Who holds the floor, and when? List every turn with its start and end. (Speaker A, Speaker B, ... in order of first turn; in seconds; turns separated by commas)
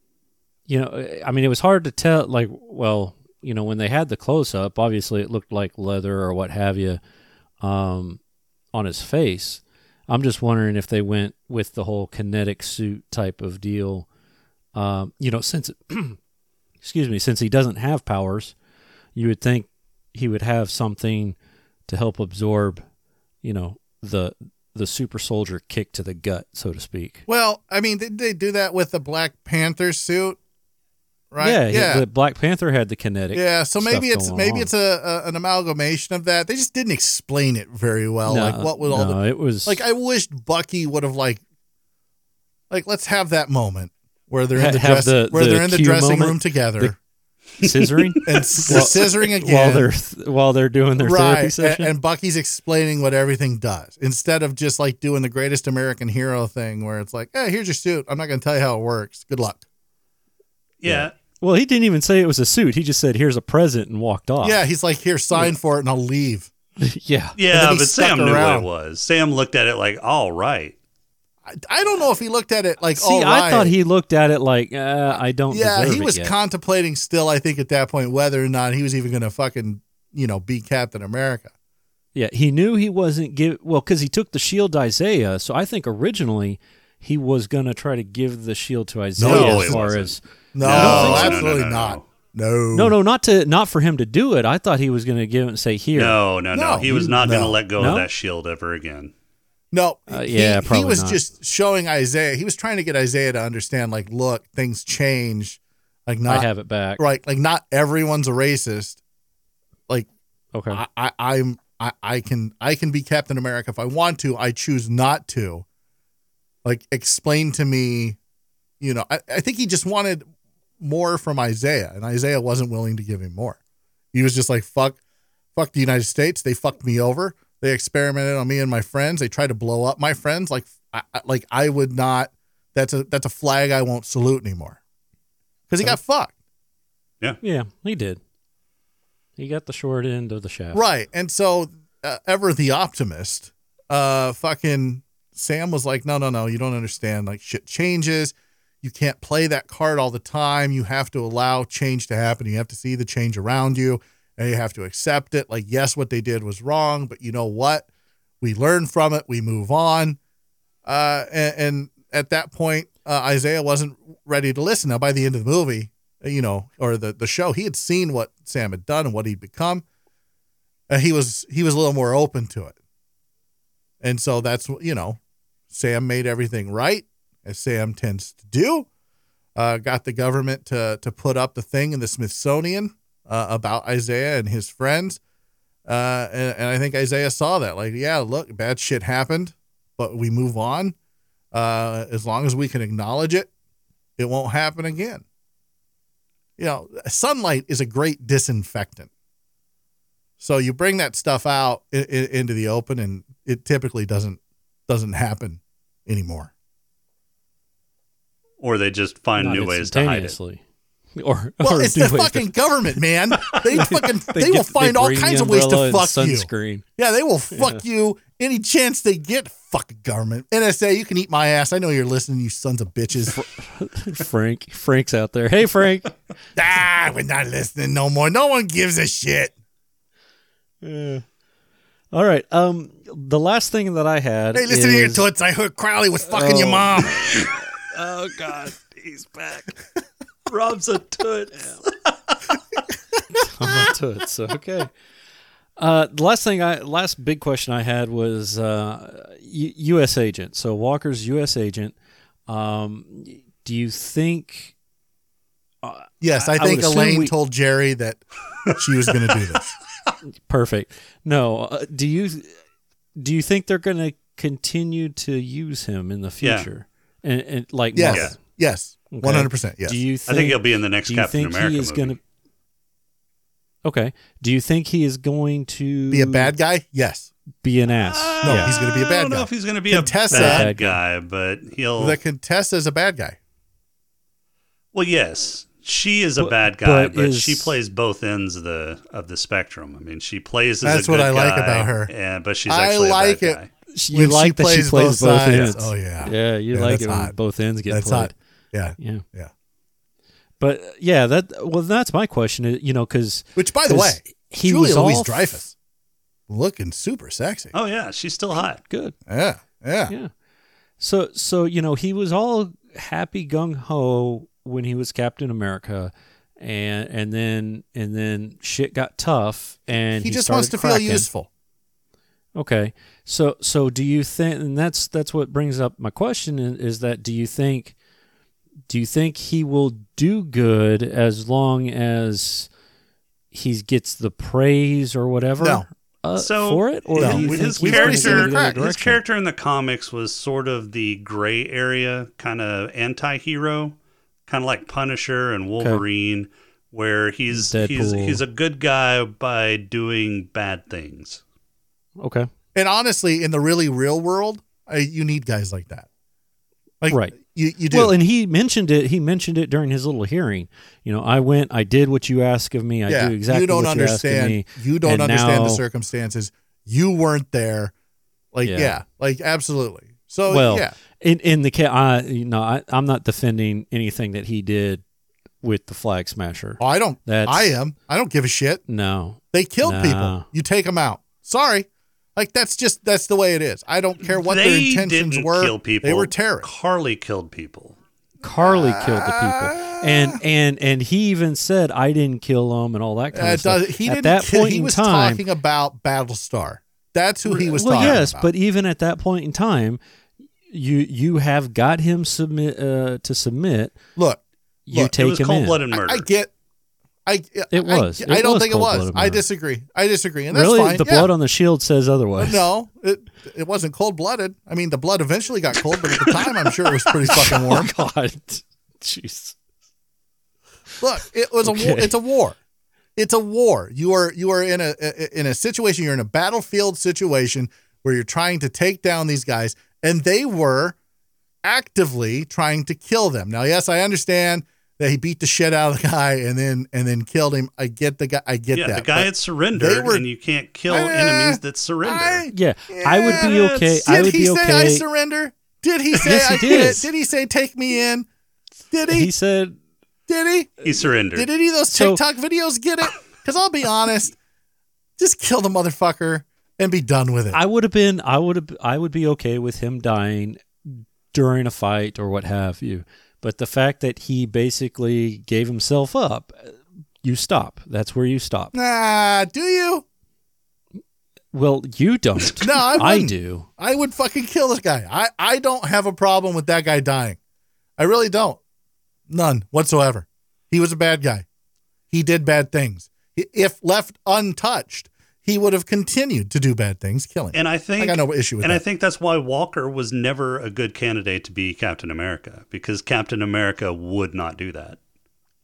Speaker A: 0.7-7.0, Speaker A: 7.6-8.2, Speaker A: 8.7-14.1, Speaker A: 14.7-16.2, Speaker A: 16.8-18.6, Speaker A: 19.1-21.4, Speaker A: 21.9-22.8, Speaker A: 23.4-27.3, Speaker B: 27.3-30.4, Speaker B: 31.3-32.1, Speaker A: 31.4-34.7, Speaker B: 33.3-41.4, Speaker A: 38.3-39.8, Speaker B: 42.7-47.0, Speaker A: 44.5-46.9, Speaker A: 47.6-51.9, Speaker C: 47.6-49.0, Speaker B: 48.3-49.9, Speaker B: 51.0-59.6, Speaker C: 60.8-61.1, Speaker A: 61.4-64.6, Speaker B: 64.4-66.5, Speaker A: 66.8-67.4, Speaker C: 67.4-70.8, Speaker B: 67.5-68.7, Speaker B: 71.5-73.8, Speaker A: 73.0-76.3, Speaker B: 75.5-81.5, Speaker A: 82.2-91.4, Speaker B: 89.2-89.8, Speaker C: 89.2-92.0, Speaker B: 90.5-93.0, Speaker A: 92.7-96.2, Speaker C: 96.0-99.1, Speaker B: 96.5-97.6, Speaker A: 97.8-98.1, Speaker B: 99.7-109.0, Speaker A: 100.1-101.2, Speaker A: 106.3-107.0, Speaker A: 110.5-110.8, Speaker B: 110.7-115.7, Speaker B: 116.7-118.2, Speaker B: 118.8-120.3, Speaker B: 120.8-123.6, Speaker B: 124.1-125.0, Speaker B: 125.6-134.8, Speaker B: 135.7-136.3, Speaker A: 137.4-138.2, Speaker A: 139.4-140.8, Speaker B: 140.7-157.9, Speaker B: 158.4-160.2, Speaker B: 160.8-169.8, Speaker B: 170.9-172.8, Speaker B: 174.0-175.2, Speaker B: 175.7-178.9, Speaker B: 179.6-185.2, Speaker B: 185.9-190.9, Speaker B: 191.5-193.5, Speaker B: 194.2-195.2, Speaker B: 196.6-199.1, Speaker B: 200.4-206.5, Speaker C: 208.6-210.4, Speaker A: 209.4-210.6, Speaker A: 211.2-212.5, Speaker B: 211.6-223.4, Speaker A: 213.7-216.8, Speaker A: 223.3-226.1, Speaker B: 226.6-229.5, Speaker A: 230.8-231.2, Speaker A: 232.1-235.3, Speaker B: 234.5-237.4, Speaker A: 236.3-239.7, Speaker C: 240.5-242.3, Speaker A: 243.3-244.9, Speaker A: 245.8-251.9, Speaker A: 252.5-254.7, Speaker A: 255.8-257.3, Speaker B: 256.2-259.7, Speaker A: 260.5-262.5, Speaker A: 263.2-268.4, Speaker C: 266.4-266.7, Speaker B: 267.9-270.0, Speaker A: 269.1-272.2, Speaker C: 270.3-272.2, Speaker A: 273.9-276.5, Speaker B: 276.1-277.3, Speaker A: 277.6-278.7, Speaker C: 277.9-282.2, Speaker B: 278.4-280.7, Speaker A: 280.3-281.0, Speaker B: 282.0-283.4, Speaker C: 284.9-293.7, Speaker A: 286.4-287.8, Speaker B: 290.8-292.1, Speaker B: 292.7-293.6, Speaker A: 293.9-298.3, Speaker B: 294.1-297.3, Speaker B: 297.9-299.5, Speaker A: 299.0-299.2, Speaker A: 300.6-305.6, Speaker B: 303.6-305.7, Speaker B: 306.5-307.7, Speaker C: 307.7-308.8, Speaker A: 308.6-309.2, Speaker B: 309.3-310.1, Speaker A: 311.0-321.3, Speaker B: 320.2-321.5, Speaker A: 322.6-327.9, Speaker A: 328.9-332.7, Speaker A: 333.5-339.2, Speaker B: 335.6-335.9, Speaker C: 336.4-344.0, Speaker B: 337.1-338.9, Speaker C: 344.5-351.4, Speaker A: 347.5-348.4, Speaker A: 352.2-352.5, Speaker B: 352.8-356.1, Speaker B: 357.0-358.1, Speaker A: 357.1-357.4, Speaker A: 357.9-365.8, Speaker B: 363.1-367.9, Speaker B: 368.5-371.0, Speaker A: 368.6-369.0, Speaker A: 370.5-375.0, Speaker A: 375.6-377.8, Speaker B: 376.8-378.8, Speaker A: 378.9-380.5, Speaker B: 379.5-386.7, Speaker C: 384.4-388.0, Speaker A: 388.4-395.4, Speaker B: 388.6-390.4, Speaker B: 393.3-398.5, Speaker A: 397.5-400.0, Speaker C: 397.9-398.2, Speaker A: 400.7-404.0, Speaker B: 404.2-405.1, Speaker A: 404.9-405.8, Speaker C: 405.2-406.3, Speaker B: 405.9-406.5, Speaker B: 407.3-411.3, Speaker A: 407.7-409.4, Speaker A: 410.5-412.6, Speaker B: 412.4-417.9, Speaker A: 417.2-419.6, Speaker B: 421.0-422.6, Speaker A: 421.6-422.1, Speaker B: 423.2-431.0, Speaker B: 431.6-440.3, Speaker C: 438.7-442.5, Speaker B: 440.9-448.3, Speaker A: 442.5-445.1, Speaker C: 443.3-443.8, Speaker A: 446.2-447.1, Speaker B: 448.9-449.3, Speaker A: 449.1-449.8, Speaker B: 450.3-450.8, Speaker C: 450.8-451.5, Speaker B: 451.3-454.4, Speaker A: 451.9-452.2, Speaker B: 455.2-457.6, Speaker A: 457.5-468.7, Speaker B: 468.7-470.0, Speaker A: 471.5-473.7, Speaker B: 472.6-477.4, Speaker B: 478.0-478.6, Speaker B: 479.3-481.4, Speaker B: 482.1-488.8, Speaker C: 487.5-495.0